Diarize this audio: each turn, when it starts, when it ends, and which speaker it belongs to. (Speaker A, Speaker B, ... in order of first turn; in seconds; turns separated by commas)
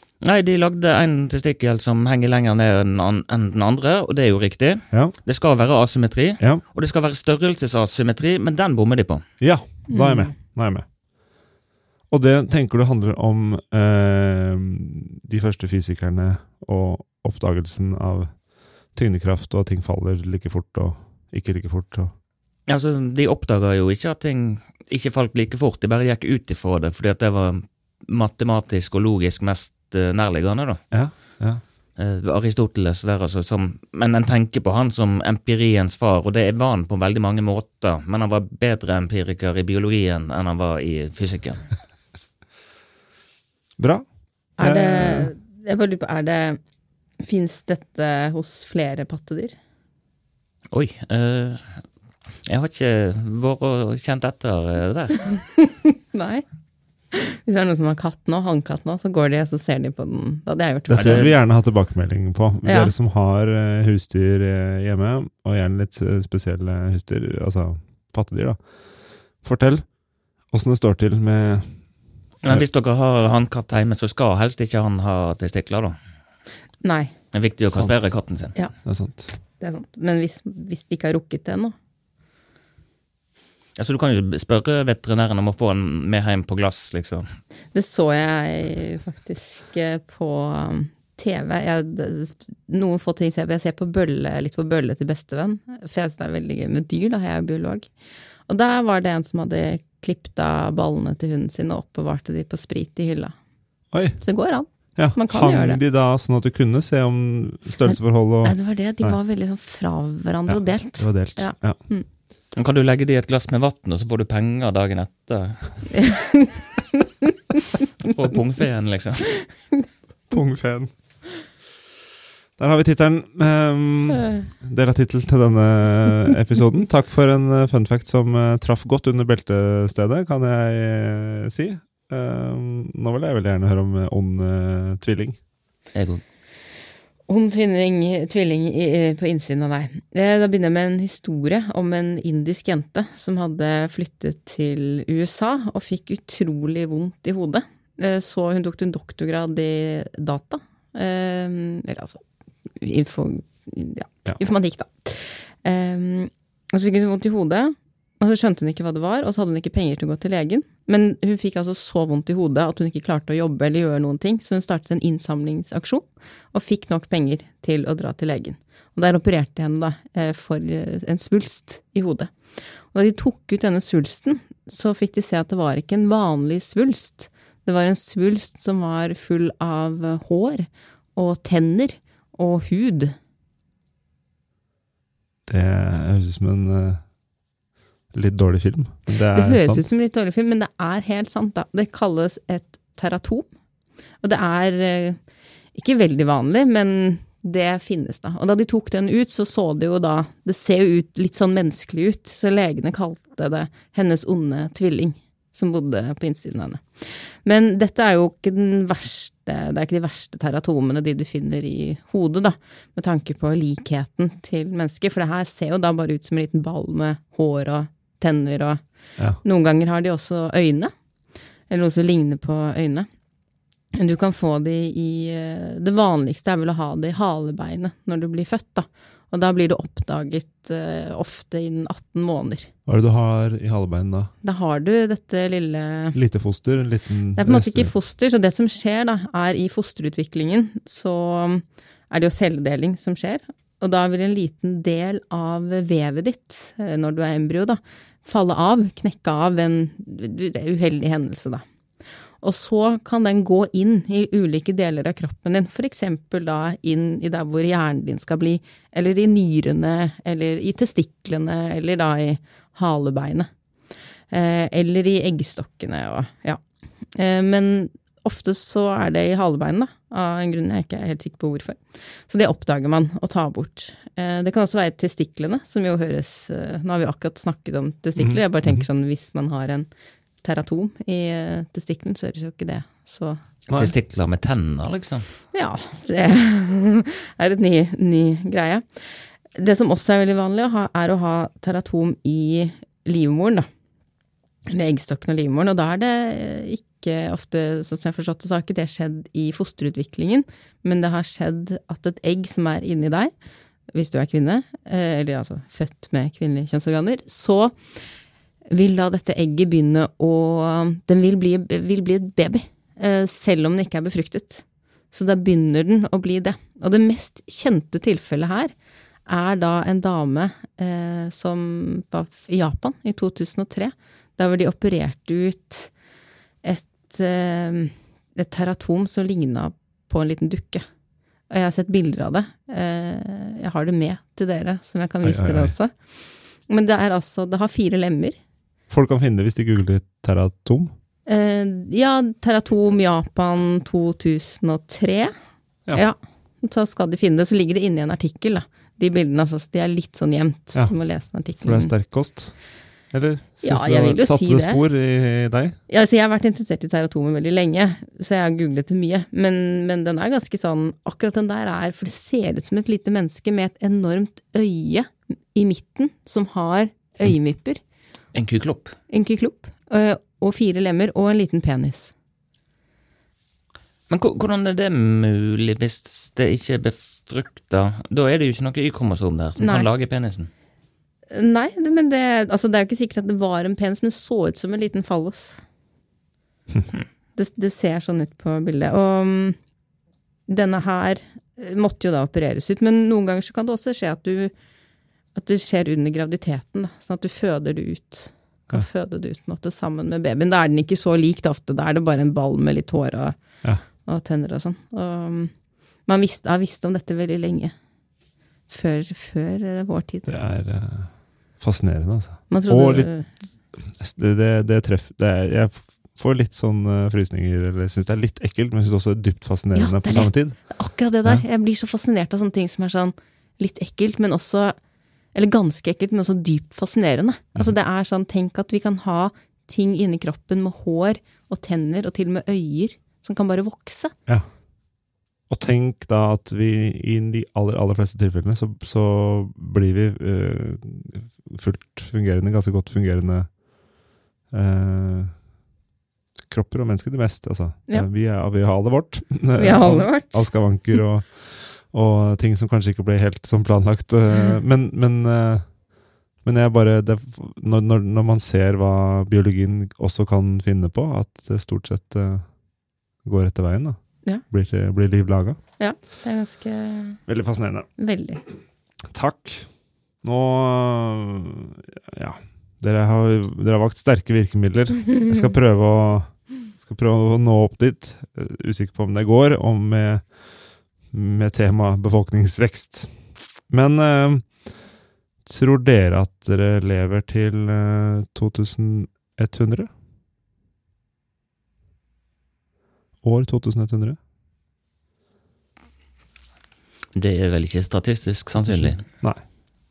Speaker A: 0.2-9.2, Speaker B: 9.4-10.8, Speaker C: 9.9-10.3, Speaker B: 12.1-22.1, Speaker A: 22.7-30.8, Speaker B: 30.9-31.6, Speaker A: 31.9-41.7, Speaker B: 43.8-44.0, Speaker B: 44.6-45.3, Speaker C: 44.6-46.6, Speaker C: 47.2-49.5, Speaker A: 50.7-51.8, Speaker A: 52.5-55.4, Speaker C: 55.6-56.4, Speaker C: 57.1-61.3, Speaker B: 60.9-68.6, Speaker A: 61.0-61.3, Speaker C: 62.6-62.9, Speaker B: 69.4-69.9, Speaker B: 70.5-71.9, Speaker A: 72.4-76.0, Speaker C: 76.8-77.1, Speaker A: 77.3-78.5, Speaker B: 77.7-78.1, Speaker B: 78.7-79.3, Speaker C: 79.3-81.7, Speaker A: 83.8-87.3, Speaker C: 87.7-97.9, Speaker C: 98.5-103.3, Speaker B: 103.9-104.2, Speaker C: 104.2-105.8, Speaker B: 105.0-109.2, Speaker C: 107.9-112.1, Speaker B: 110.5-111.8, Speaker A: 112.5-116.0, Speaker C: 116.0-116.6, Speaker A: 118.0-119.6, Speaker B: 120.3-121.5, Speaker B: 122.6-135.4, Speaker A: 135.9-136.2, Speaker C: 137.3-152.2, Speaker C: 152.8-183.1, Speaker B: 185.5-187.0, Speaker B: 188.1-189.8, Speaker C: 189.3-193.5, Speaker C: 194.2-195.2, Speaker C: 195.7-218.8, Speaker C: 219.4-220.9, Speaker C: 221.7-223.1, Speaker C: 223.9-232.7, Speaker B: 232.8-234.3, Speaker C: 234.4-236.2, Speaker B: 236.1-237.9, Speaker C: 237.3-251.6, Speaker C: 252.4-263.5, Speaker C: 264.3-279.9, Speaker B: 278.2-278.8, Speaker C: 280.4-283.4, Speaker A: 283.7-285.3, Speaker C: 285.5-293.7, Speaker C: 294.7-303.3, Speaker C: 303.9-308.1, Speaker C: 308.7-318.7, Speaker C: 319.2-325.9, Speaker C: 326.6-330.8, Speaker C: 331.5-335.9, Speaker B: 335.2-335.7, Speaker C: 336.6-338.4, Speaker B: 338.9-340.9, Speaker C: 341.3-345.3, Speaker C: 345.9-351.9, Speaker B: 351.4-355.8, Speaker C: 353.6-354.8, Speaker C: 355.9-367.8, Speaker A: 368.3-368.9, Speaker C: 369.1-372.1, Speaker A: 374.1-380.5, Speaker C: 379.6-379.9, Speaker C: 381.3-385.6, Speaker C: 387.3-389.6, Speaker C: 390.5-394.5, Speaker C: 395.3-403.4, Speaker C: 404.0-405.5, Speaker C: 406.0-407.7, Speaker C: 408.7-410.3, Speaker B: 410.3-420.7, Speaker C: 412.5-413.3, Speaker C: 419.7-424.8, Speaker C: 425.3-434.1, Speaker B: 435.5-443.5, Speaker B: 444.5-445.3, Speaker B: 446.5-455.7, Speaker C: 449.6-450.6, Speaker B: 456.4-462.5, Speaker B: 463.2-465.6, Speaker C: 465.8-467.2, Speaker B: 467.3-467.9, Speaker C: 468.0-468.4, Speaker B: 469.0-469.7, Speaker B: 470.2-480.4, Speaker B: 481.1-484.7, Speaker B: 485.4-489.9, Speaker B: 493.2-494.2, Speaker A: 497.1-499.0, Speaker B: 498.5-499.4